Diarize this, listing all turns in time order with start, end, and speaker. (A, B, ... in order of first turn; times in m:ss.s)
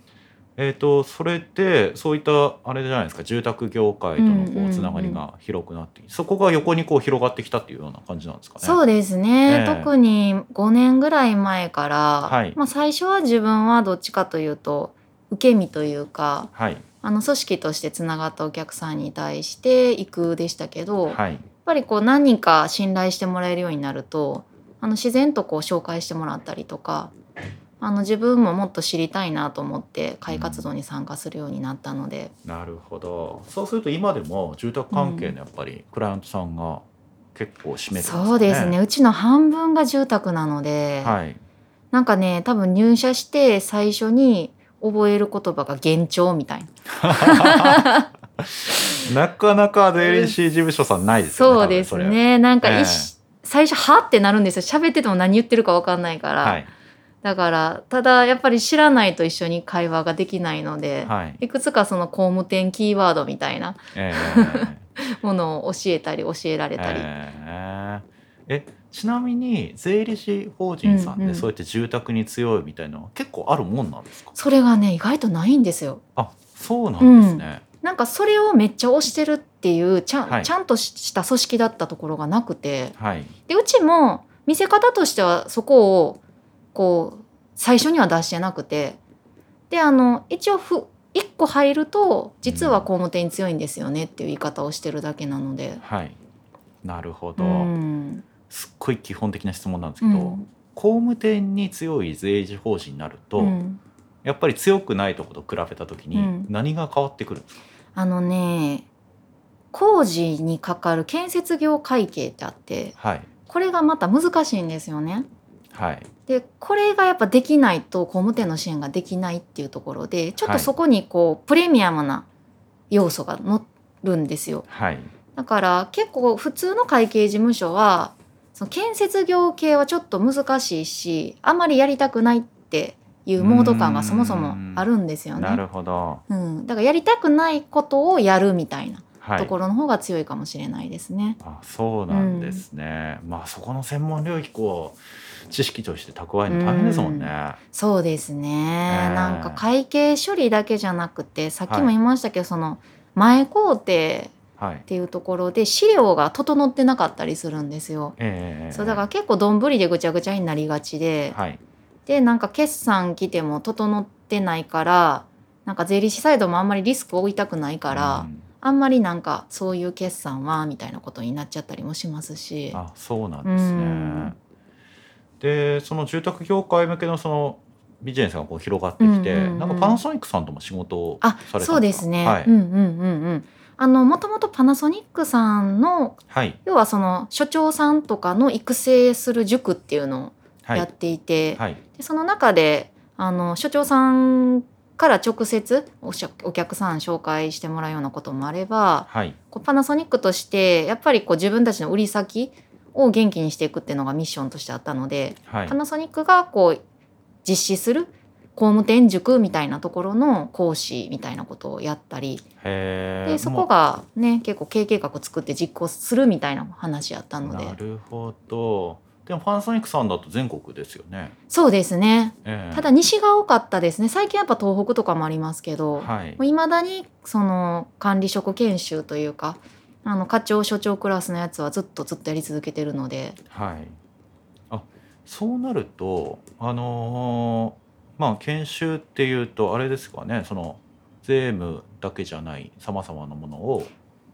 0:00.6-0:08.8 A
0:04.2-0:05.2 B
0:08.6-0:16.5 B
0:09.4-0:09.9 A
0:12.2-0:12.6 A
0:16.5-0:16.8 A
0:17.0-0:27.1 B
0:21.1-0:21.4 A
0:27.8-0:32.3 B
0:30.3-0:30.7 A
0:32.4-0:38.8 A
0:34.9-0:35.4 B
0:37.9-0:41.2 B
0:41.0-0:41.4 A
0:41.9-0:48.1 B
0:47.0-0:47.8 A
0:49.0-0:53.1 A
0:50.0-0:50.3 B
0:51.3-0:56.6 B
0:56.4-0:56.7 A
0:57.2-1:07.1 B
1:01.0-1:01.4 A
1:03.9-1:04.8 A
1:06.8-1:14.3 A
1:10.8-1:11.5 B
1:14.3-1:16.0 B
1:16.2-1:17.6 A
1:17.0-1:23.0 B
1:20.2-1:20.5 A
1:23.0-1:23.3 A
1:23.5-1:26.2 B
1:26.7-1:29.0 B
1:29.7-1:35.8 B
1:32.4-1:32.8 A
1:35.8-1:36.2 A
1:36.8-1:37.7 A
1:37.4-1:38.2 B
1:38.5-1:43.6 A
1:40.0-1:40.5 B
1:43.4-1:43.8 B
1:44.2-1:47.6 A
1:46.1-1:46.5 B
1:47.9-1:48.8 B
1:49.7-1:55.3 B
1:53.0-1:53.3 A
1:55.7-1:56.1 A
1:56.2-2:02.2 B
2:00.4-2:00.7 A
2:02.9-2:04.6 B
2:04.7-2:05.1 A
2:05.3-2:15.6 B
2:13.4-2:16.2 A
2:16.3-2:21.4 B
2:19.2-2:19.5 A
2:21.4-2:27.6 A
2:22.1-2:22.6 B
2:26.5-2:34.3 B
2:28.9-2:29.6 A
2:31.7-2:31.9 A
2:34.6-2:34.8 A
2:34.9-2:38.2 B
2:38.2-2:39.0 A
2:38.7-2:41.4 B
2:41.3-2:41.6 A
2:42.0-2:52.8 B
2:47.9-2:48.4 A
2:52.7-2:54.4 A
2:53.4-2:54.3 B
2:55.4-3:02.5 A
2:59.0-3:00.0 B
3:01.2-3:26.8 B
3:06.3-3:06.6 A
3:19.1-3:19.4 A
3:25.5-3:25.8 A
3:27.4-3:32.4 B
3:32.6-3:33.7 A
3:33.2-3:37.8 B
3:37.4-3:41.3 A
3:41.5-3:53.4 B
3:42.4-3:42.9 A
3:46.0-3:46.4 A
3:53.5-3:54.0 A
3:54.7-4:03.9 A